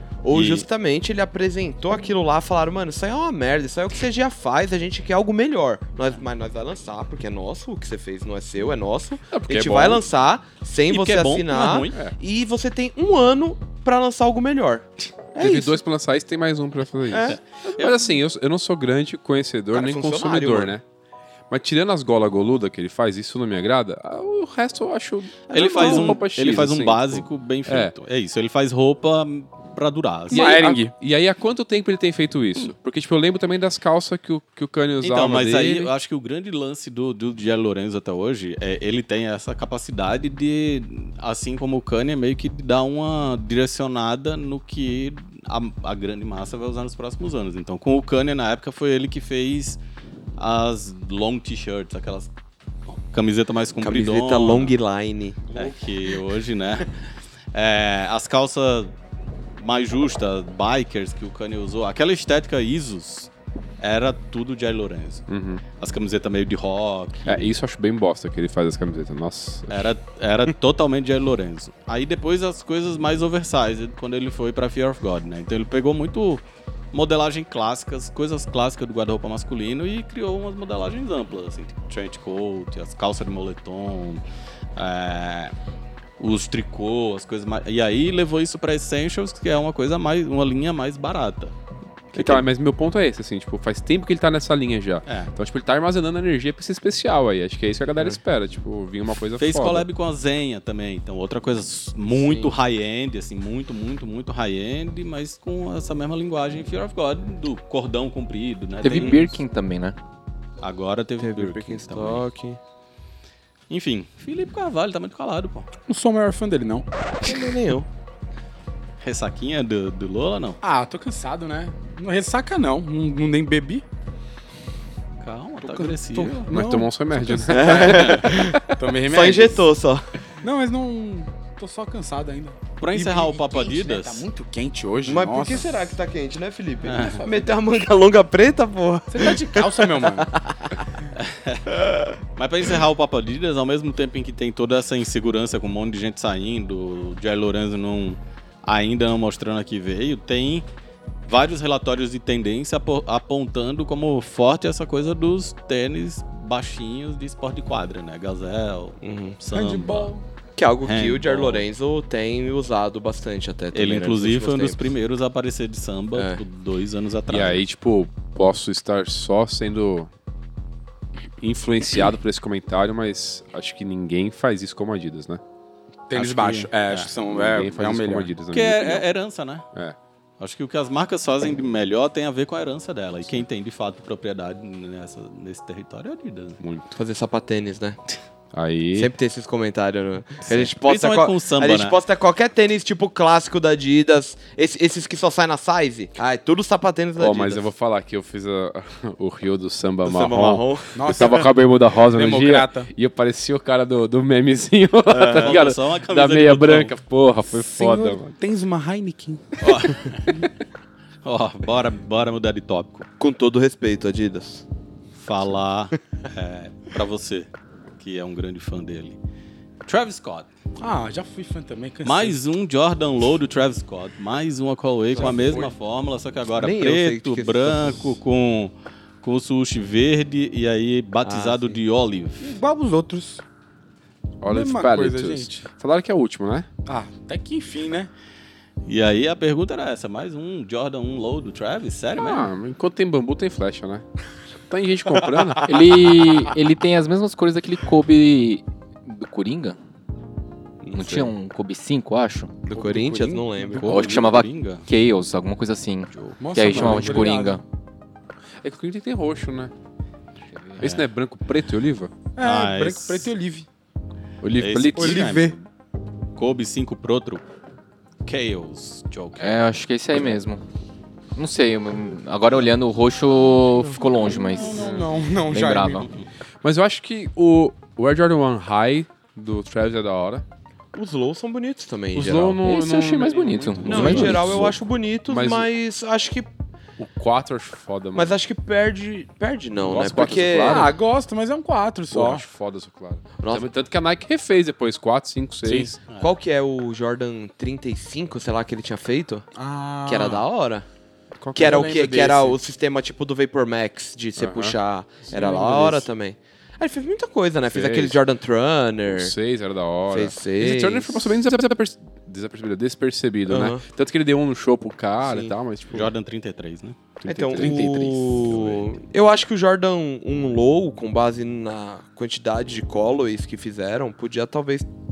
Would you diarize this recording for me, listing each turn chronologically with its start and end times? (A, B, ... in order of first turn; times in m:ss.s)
0:00.2-0:15.8 A
0:00.3-0:00.6 B
0:09.3-0:10.0 C
0:10.9-0:12.0 B
0:15.4-0:20.8 C
0:17.1-0:17.4 A
0:17.2-0:18.0 B
0:19.7-0:20.7 A
0:21.5-0:27.9 C
0:25.5-0:30.6 B
0:25.8-0:26.1 A
0:30.3-0:30.9 D
0:30.3-0:35.9 C
0:35.0-0:49.8 B
0:50.4-0:52.3 B
0:52.9-0:54.7 B
0:53.8-0:55.6 A
0:55.5-0:57.0 B
0:57.5-0:58.9 B
0:59.6-1:03.3 B
1:03.8-1:07.5 B
1:05.3-1:05.6 C
1:07.2-1:09.9 C
1:09.7-1:16.4 B
1:16.9-1:24.2 B
1:24.8-1:25.5 B
1:26.2-1:31.5 B
1:32.1-1:32.4 B
1:32.1-1:39.8 C
1:35.0-1:35.3 B
1:39.4-1:49.3 B
1:42.1-1:42.5 A
1:48.8-1:50.0 E
1:50.6-1:52.2 B
1:51.2-1:52.6 A
1:53.7-1:55.7 B
1:55.9-1:56.8 D
1:57.2-1:57.9 A
1:59.0-2:00.6 B
2:00.6-2:03.8 D
2:05.2-2:06.5 B
2:05.6-2:07.5 D
2:06.5-2:08.5 C
2:07.5-2:10.1 A
2:07.6-2:08.3 B
2:08.7-2:09.7 D
2:10.4-2:15.7 D
2:12.8-2:14.3 B
2:15.0-2:20.8 A
2:16.8-2:17.2 B
2:19.1-2:20.3 D
2:21.1-2:21.7 B
2:22.4-2:30.6 B
2:31.3-2:40.1 B
2:39.0-2:39.4 A
2:39.5-2:40.2 D
2:40.6-2:44.8 A
2:40.8-2:41.7 B
2:43.7-2:47.6 B
2:46.1-2:46.4 A
2:47.3-2:50.1 C
2:51.4-2:55.4 C
2:56.1-2:58.3 D
2:56.1-2:57.1 B
2:57.3-2:59.1 C
2:58.5-2:59.7 B
3:00.4-3:06.6 B
3:06.6-3:06.9 C
3:06.9-3:08.0 A
3:08.5-3:09.1 C
3:08.9-3:17.6 A
3:10.4-3:12.0 B
3:17.2-3:28.3 C
3:20.0-3:21.3 A
3:21.0-3:22.9 D
3:25.1-3:26.9 B
3:25.2-3:25.6 A
3:27.5-3:30.4 D
3:29.6-3:30.4 B
3:31.2-3:33.1 B
3:33.2-3:34.6 A
3:35.2-3:37.5 B
3:38.0-3:39.2 B
3:39.8-3:40.5 B
3:40.8-3:42.4 D
3:42.0-3:52.6 B
3:45.2-3:45.6 A
3:45.2-3:45.7 D
3:46.6-3:48.2 A
3:51.2-3:51.8 A
3:52.4-3:53.4 D
3:54.4-3:56.7 C
3:54.4-3:55.6 D
3:56.8-3:58.1 D
3:58.8-4:02.5 B
4:02.2-4:04.0 C
4:04.7-4:05.9 C
4:05.6-4:09.8 E
4:10.8-4:11.3 A
4:10.9-4:12.6 E
4:12.7-4:14.2 A
4:12.7-4:14.0 D
4:13.8-4:14.9 B
4:13.8-4:17.6 E
4:16.4-4:17.6 D
4:16.7-4:17.2 C
4:18.6-4:19.7 C
4:20.8-4:22.1 C
4:22.4-4:23.7 D
4:22.4-4:23.3 B
4:24.4-4:25.4 C
4:24.6-4:25.6 B
4:25.0-4:25.5 D
4:26.4-4:27.4 B
4:28.2-4:29.6 B
4:29.4-4:30.6 E
4:31.3-4:35.0 E
4:34.2-4:36.1 D
4:35.5-4:36.1 E
4:36.6-4:40.4 C
4:40.9-4:42.6 A
4:42.1-4:45.7 C
4:42.6-4:44.7 E
4:43.8-4:46.5 A
4:47.0-4:48.3 C
4:48.1-4:50.9 A
4:49.8-4:51.0 C
4:50.6-4:52.4 D
4:52.1-4:56.0 C
4:53.4-4:53.7 A
4:55.6-4:56.0 D
4:56.1-4:56.3 B
4:56.2-4:59.5 A
4:59.5-5:00.4 D
5:00.0-5:00.8 A
5:01.4-5:01.9 C
5:01.6-5:09.3 A
5:01.6-5:02.6 D
5:04.4-5:04.8 C
5:05.3-5:05.9 D
5:05.4-5:06.0 C
5:07.7-5:08.2 C
5:09.0-5:16.1 C
5:10.1-5:11.2 A
5:13.5-5:13.8 A
5:15.2-5:15.5 A
5:15.9-5:17.9 B
5:17.3-5:24.9 A
5:17.5-5:18.5 E
5:18.4-5:18.8 C